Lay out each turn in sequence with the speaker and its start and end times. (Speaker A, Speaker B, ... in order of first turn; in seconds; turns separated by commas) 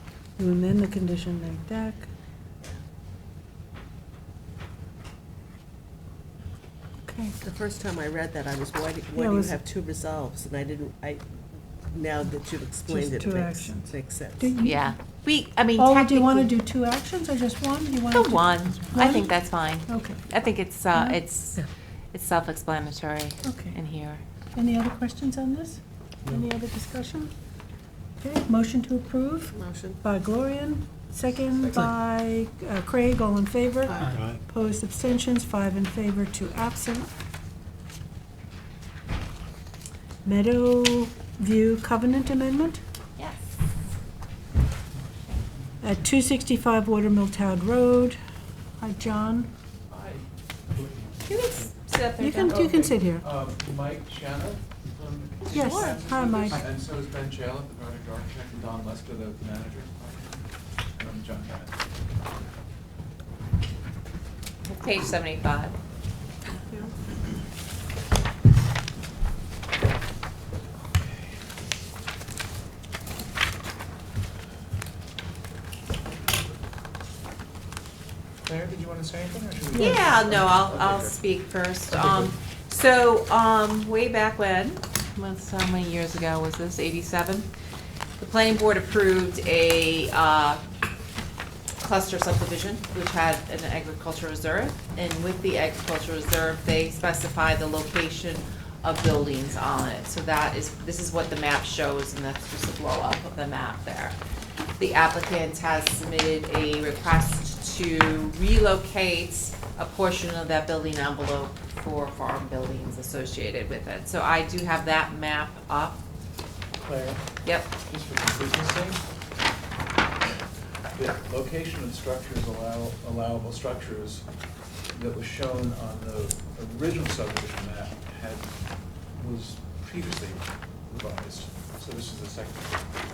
Speaker A: 0.4-2.0, Speaker A: 7.0-7.3, Speaker B: 7.4-11.2, Speaker A: 9.1-9.6, Speaker B: 11.9-14.5, Speaker A: 12.9-14.9, Speaker C: 14.6-16.5, Speaker A: 15.8-20.2, Speaker C: 18.1-24.2, Speaker A: 20.9-21.2, Speaker A: 23.4-23.7, Speaker A: 24.5-27.3, Speaker A: 28.2-37.1, Speaker B: 29.5-30.0, Speaker A: 40.2-42.8, Speaker A: 45.8-48.2, Speaker A: 48.8-49.5, Speaker D: 49.9-51.7, Speaker C: 51.2-53.0, Speaker A: 52.2-53.2, Speaker D: 53.2-60.4, Speaker C: 55.5-56.0, Speaker A: 55.5-56.6, Speaker D: 61.0-61.8, Speaker C: 64.6-65.7, Speaker B: 66.5-66.9, Speaker D: 70.9-71.4, Speaker D: 78.4-81.2, Speaker A: 79.7-80.0, Speaker C: 79.7-87.5, Speaker D: 81.9-82.3, Speaker C: 88.2-90.6, Speaker C: 91.8-104.2, Speaker C: 104.8-116.0, Speaker D: 116.8-117.2, Speaker C: 117.4-117.7, Speaker D: 117.9-119.0, Speaker D: 120.9-124.2, Speaker D: 124.9-128.5, Speaker D: 129.1-132.8